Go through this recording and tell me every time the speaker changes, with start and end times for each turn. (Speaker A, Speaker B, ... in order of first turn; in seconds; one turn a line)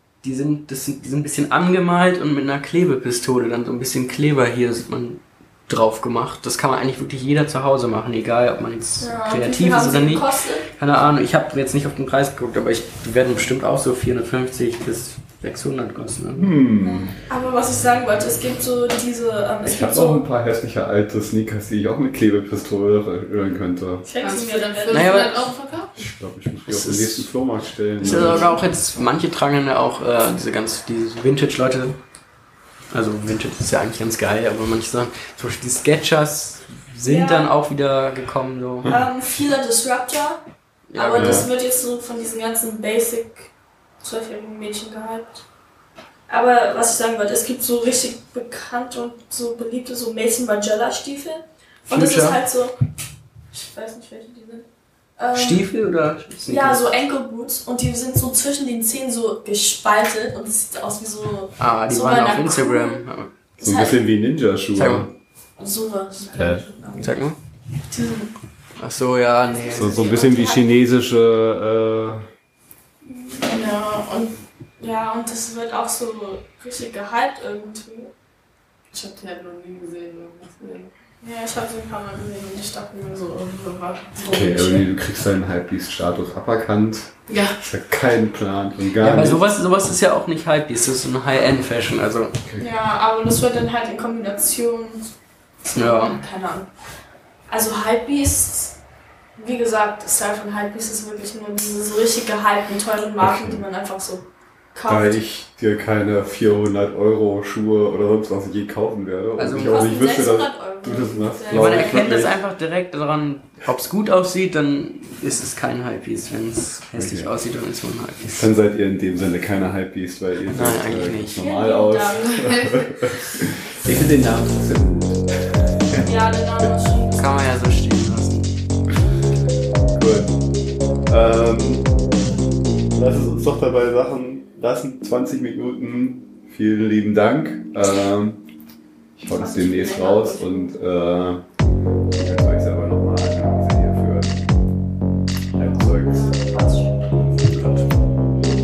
Speaker A: 0.2-16.5
Speaker B: 9.0-10.7
Speaker C: 16.4-17.2
Speaker B: 16.8-20.2
Speaker C: 19.6-24.0
Speaker B: 24.0-25.3
Speaker D: 24.2-25.9
Speaker A: 24.9-25.5
Speaker C: 26.0-28.6
Speaker A: 26.7-27.3
Speaker A: 28.0-32.0
Speaker A: 32.9-39.0
Speaker B: 37.0-37.5
Speaker B: 38.9-40.4
Speaker A: 40.9-41.5
Speaker B: 40.9-45.4
Speaker C: 41.1-41.5
Speaker B: 46.3-52.8
Speaker A: 51.9-52.4
Speaker B: 53.5-54.7
Speaker B: 55.2-55.7
Speaker A: 55.3-56.8
Speaker B: 56.4-63.0
Speaker A: 61.6-63.3
Speaker B: 63.6-64.0
Speaker C: 63.6-65.1
Speaker A: 64.7-65.1
Speaker B: 65.6-67.1
Speaker C: 66.3-66.6
Speaker A: 67.0-67.4
Speaker B: 67.9-68.3
Speaker A: 68.8-70.2
Speaker B: 69.4-70.7
Speaker C: 69.7-72.3
Speaker B: 73.2-78.1
Speaker D: 78.9-80.9
Speaker B: 81.2-84.9
Speaker C: 84.2-89.4
Speaker D: 87.3-87.6
Speaker A: 89.0-92.3
Speaker B: 92.6-95.1
Speaker B: 95.6-96.7
Speaker A: 95.8-96.2
Speaker B: 97.5-98.8
Speaker B: 99.4-105.2
Speaker C: 103.2-103.6
Speaker C: 104.9-112.4
Speaker A: 109.4-110.0
Speaker B: 109.6-112.3
Speaker A: 111.5-118.5
Speaker C: 116.9-117.3
Speaker C: 118.3-126.1
Speaker A: 120.5-121.4
Speaker B: 121.4-122.5
Speaker D: 122.1-123.0
Speaker B: 126.0-127.5
Speaker A: 127.2-128.5
Speaker C: 129.9-130.3
Speaker C: 131.1-131.9
Speaker C: 132.9-138.4
Speaker C: 139.2-141.4
Speaker B: 139.3-140.7
Speaker C: 142.1-144.5
Speaker C: 145.5-146.3
Speaker B: 145.6-147.6
Speaker A: 147.5-147.8